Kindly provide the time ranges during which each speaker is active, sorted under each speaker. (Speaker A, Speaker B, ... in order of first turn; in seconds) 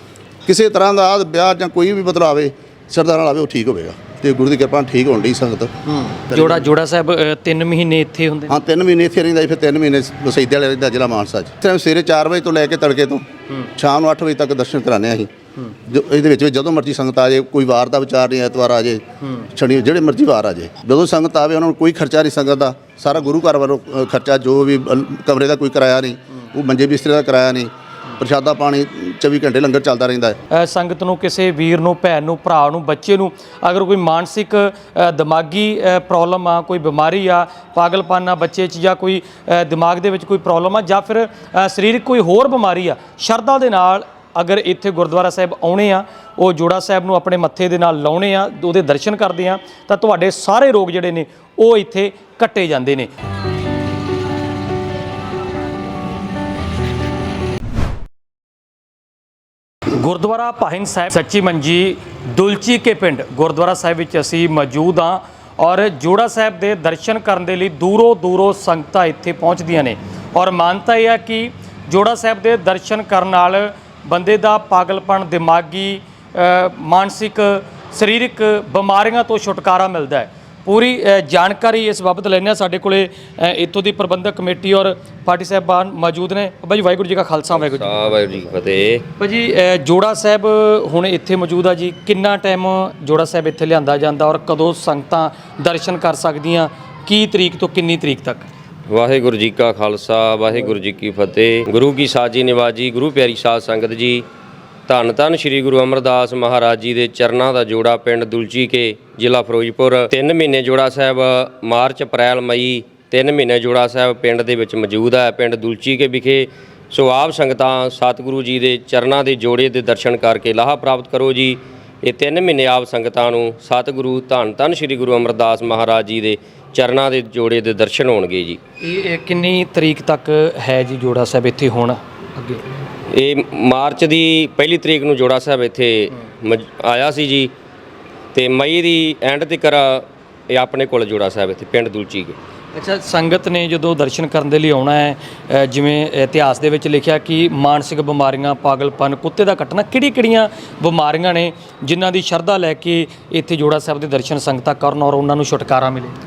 Speaker A: 0.5-5.7, 6.3-6.7, 8.5-15.3, 15.8-30.4
Speaker B: 5.9-8.6, 30.5-53.1, 59.9-88.1, 89.2-98.5, 128.8-132.6, 142.7-156.2
Speaker C: 87.6-89.0, 98.9-104.2, 104.9-128.6, 133.1-137.5, 138.3-142.4